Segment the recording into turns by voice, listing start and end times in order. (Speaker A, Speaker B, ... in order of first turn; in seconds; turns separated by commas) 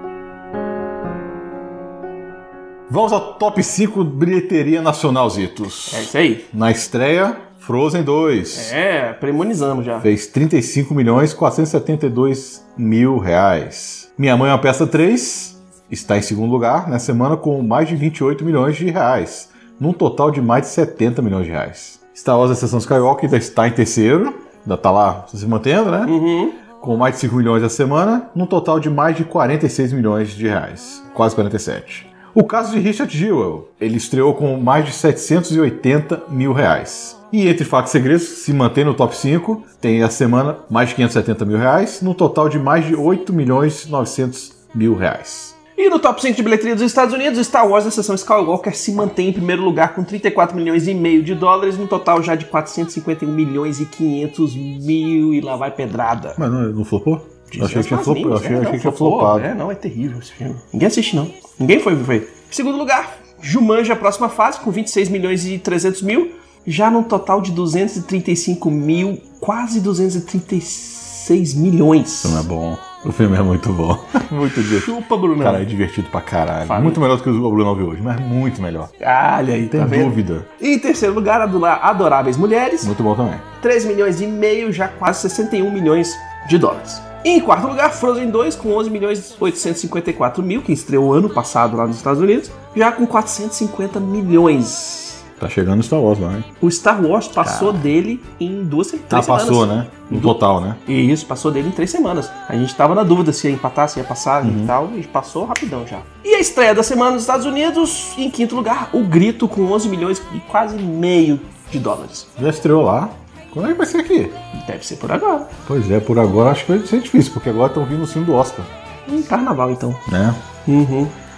Speaker A: 2.9-8.7, Speaker B: 5.9-6.5, Speaker B: 8.5-10.1, Speaker A: 10.0-26.2, Speaker B: 26.1-26.6, Speaker A: 26.8-45.6, Speaker B: 45.8-56.4, Speaker A: 56.4-59.5, Speaker B: 57.5-72.4, Speaker A: 72.2-78.9, Speaker B: 74.6-75.7, Speaker B: 76.7-77.0, Speaker B: 79.0-82.9, Speaker A: 79.7-80.5, Speaker A: 82.8-83.5, Speaker B: 83.6-95.2, Speaker A: 95.4-96.5, Speaker B: 96.6-112.3, Speaker A: 97.4-97.8, Speaker A: 99.1-100.8, Speaker A: 104.4-104.7, Speaker A: 112.4-114.4, Speaker B: 114.5-115.5, Speaker A: 115.7-118.7, Speaker B: 119.1-120.0, Speaker A: 120.1-120.4, Speaker B: 120.7-121.1